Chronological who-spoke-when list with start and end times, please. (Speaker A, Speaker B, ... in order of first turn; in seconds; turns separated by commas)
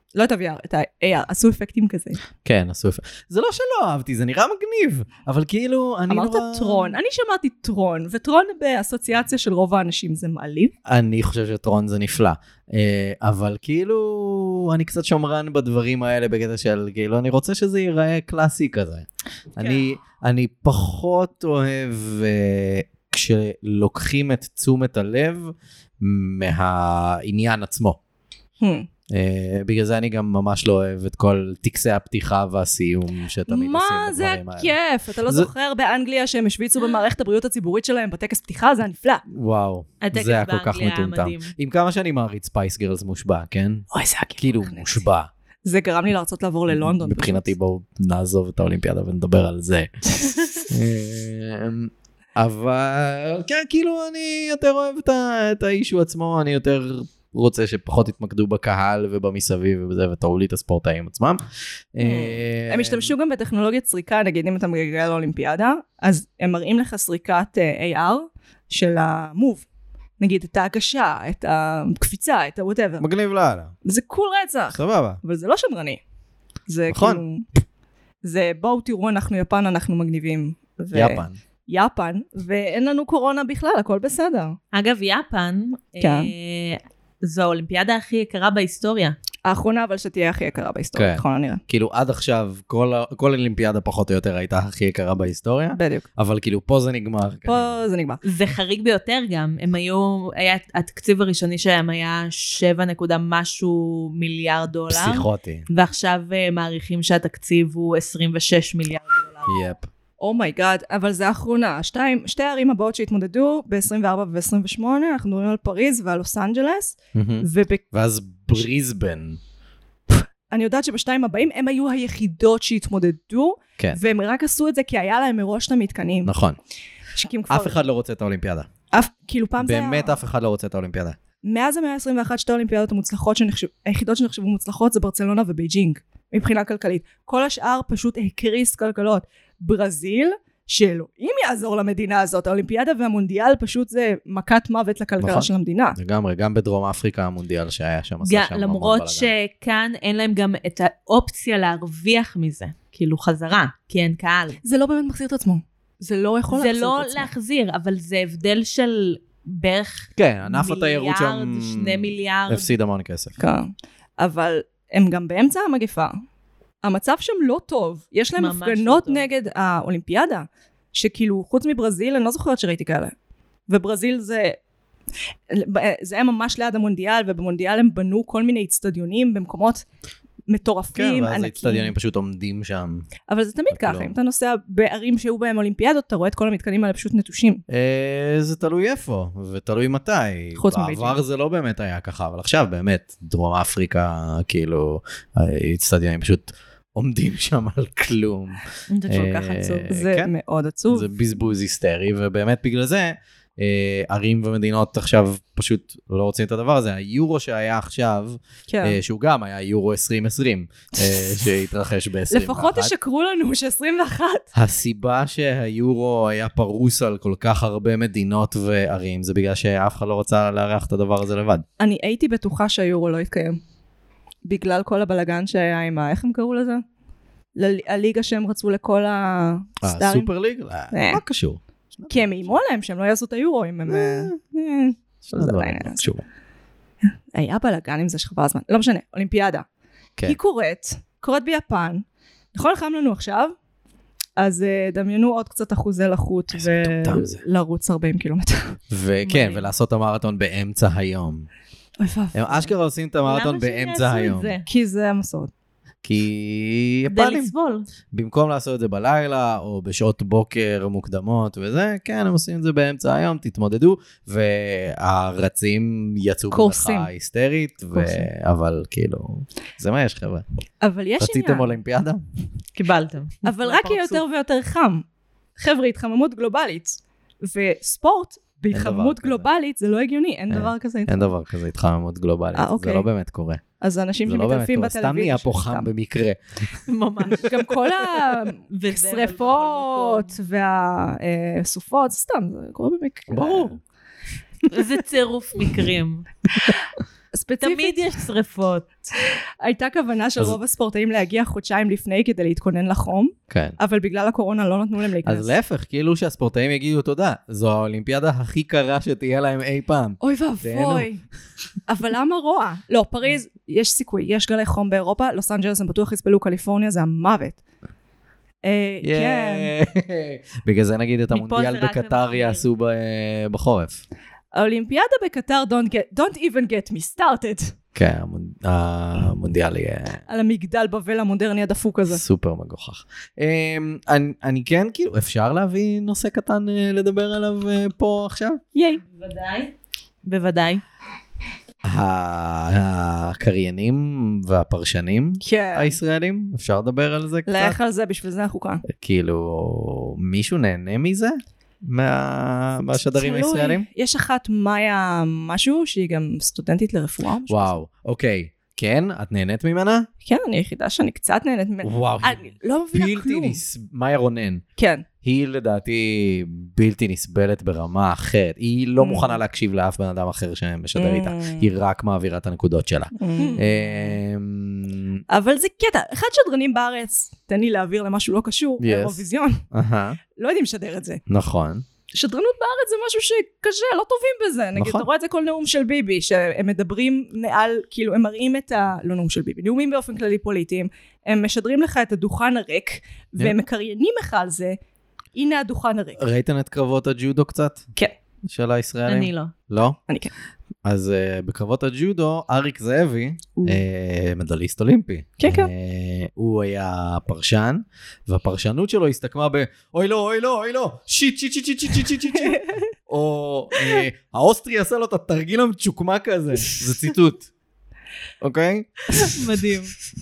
Speaker A: 0.1-2.2, Speaker B: 2.4-7.0, Speaker A: 6.1-10.7, Speaker B: 10.9-28.0, Speaker A: 28.6-28.9, Speaker B: 29.1-34.7, Speaker A: 33.5-39.2, Speaker B: 39.3-43.9, Speaker C: 40.0-41.5, Speaker A: 43.9-45.0, Speaker B: 44.4-45.3, Speaker A: 45.6-47.5, Speaker B: 46.7-49.9, Speaker B: 50.7-61.4, Speaker B: 62.0-63.1, Speaker A: 62.0-69.6, Speaker A: 70.2-73.0, Speaker B: 73.0-73.7, Speaker A: 73.8-76.0, Speaker B: 74.7-75.2, Speaker A: 76.7-77.5, Speaker B: 76.9-77.2, Speaker A: 78.2-84.6, Speaker B: 80.9-81.4, Speaker C: 84.7-89.2, Speaker A: 86.0-86.3, Speaker A: 89.5-91.6, Speaker B: 91.0-97.8, Speaker A: 95.7-96.1, Speaker A: 97.5-98.2, Speaker C: 98.2-109.6, Speaker B: 104.9-105.7, Speaker B: 109.5-109.9, Speaker A: 110.2-117.8, Speaker B: 117.1-119.4, Speaker A: 120.1-126.3, Speaker B: 126.2-126.6, Speaker A: 127.1-127.8, Speaker B: 127.5-128.7, Speaker A: 128.9-130.2, Speaker B: 129.6-131.2, Speaker A: 131.4-146.0, Speaker B: 145.2-149.3, Speaker C: 148.2-154.6, Speaker A: 154.6-157.3, Speaker C: 156.5-162.7, Speaker B: 160.2-163.4, Speaker A: 163.4-166.2, Speaker A: 166.8-173.1, Speaker C: 168.4-169.3, Speaker A: 173.7-174.6, Speaker A: 175.5-179.8, Speaker A: 180.5-181.9, Speaker B: 180.9-183.1, Speaker A: 183.3-187.6, Speaker B: 183.7-184.1, Speaker B: 187.7-200.3, Speaker A: 190.6-191.2, Speaker C: 198.9-199.9, Speaker A: 199.9-201.1, Speaker B: 200.9-212.9, Speaker A: 208.7-209.0, Speaker A: 212.3-214.5, Speaker B: 214.6-221.6, Speaker A: 221.8-223.6, Speaker A: 224.4-226.8, Speaker A: 227.6-230.3, Speaker B: 229.8-232.6, Speaker A: 230.9-231.2, Speaker A: 232.1-236.1, Speaker B: 233.9-234.4, Speaker B: 235.2-236.2, Speaker A: 237.3-239.6, Speaker A: 240.2-243.5, Speaker A: 244.4-248.8, Speaker B: 246.5-247.4, Speaker B: 248.9-251.5, Speaker C: 249.2-249.7, Speaker A: 252.0-252.7, Speaker B: 252.3-254.6, Speaker C: 253.2-254.6, Speaker A: 254.7-255.5, Speaker B: 256.0-257.5, Speaker C: 257.1-257.9, Speaker B: 258.1-270.4, Speaker A: 266.5-267.1, Speaker A: 267.9-268.3, Speaker A: 270.8-271.7, Speaker B: 271.2-272.2, Speaker C: 272.7-274.2, Speaker A: 273.4-275.1, Speaker A: 275.6-281.3, Speaker B: 278.7-279.5, Speaker B: 280.5-283.6, Speaker A: 282.6-283.1, Speaker A: 283.8-285.9, Speaker B: 284.2-286.4, Speaker C: 286.9-290.4, Speaker A: 287.4-293.7, Speaker B: 293.3-293.8, Speaker C: 294.7-296.3, Speaker A: 297.3-298.2, Speaker C: 297.6-298.9, Speaker A: 299.6-305.5, Speaker B: 303.5-303.8, Speaker B: 305.2-311.1, Speaker A: 310.2-311.2, Speaker A: 311.9-317.6, Speaker A: 318.6-319.7, Speaker B: 319.0-324.0, Speaker C: 321.3-322.7, Speaker A: 324.5-327.7, Speaker B: 327.9-330.2, Speaker A: 330.3-332.2, Speaker B: 332.1-338.6, Speaker A: 338.7-339.0, Speaker C: 339.0-339.7, Speaker C: 340.2-340.8, Speaker B: 341.8-347.8, Speaker A: 345.4-346.0, Speaker A: 347.4-348.8, Speaker B: 348.9-353.9, Speaker A: 353.1-357.8, Speaker B: 357.5-360.1, Speaker A: 360.2-363.6, Speaker B: 361.8-364.6, Speaker A: 364.8-365.1, Speaker B: 365.2-375.2, Speaker A: 369.0-369.4, Speaker A: 370.9-371.7, Speaker A: 373.1-374.1, Speaker A: 375.3-379.6, Speaker B: 378.8-380.2, Speaker A: 380.4-381.2, Speaker B: 381.3-381.8, Speaker A: 382.1-394.8, Speaker B: 384.8-385.1, Speaker A: 395.4-396.2, Speaker B: 396.2-397.9, Speaker B: 398.4-400.0, Speaker C: 399.1-399.5, Speaker A: 400.1-400.3, Speaker B: 400.9-417.5, Speaker A: 405.4-405.7, Speaker A: 412.3-412.9, Speaker B: 418.4-419.4, Speaker C: 419.1-419.9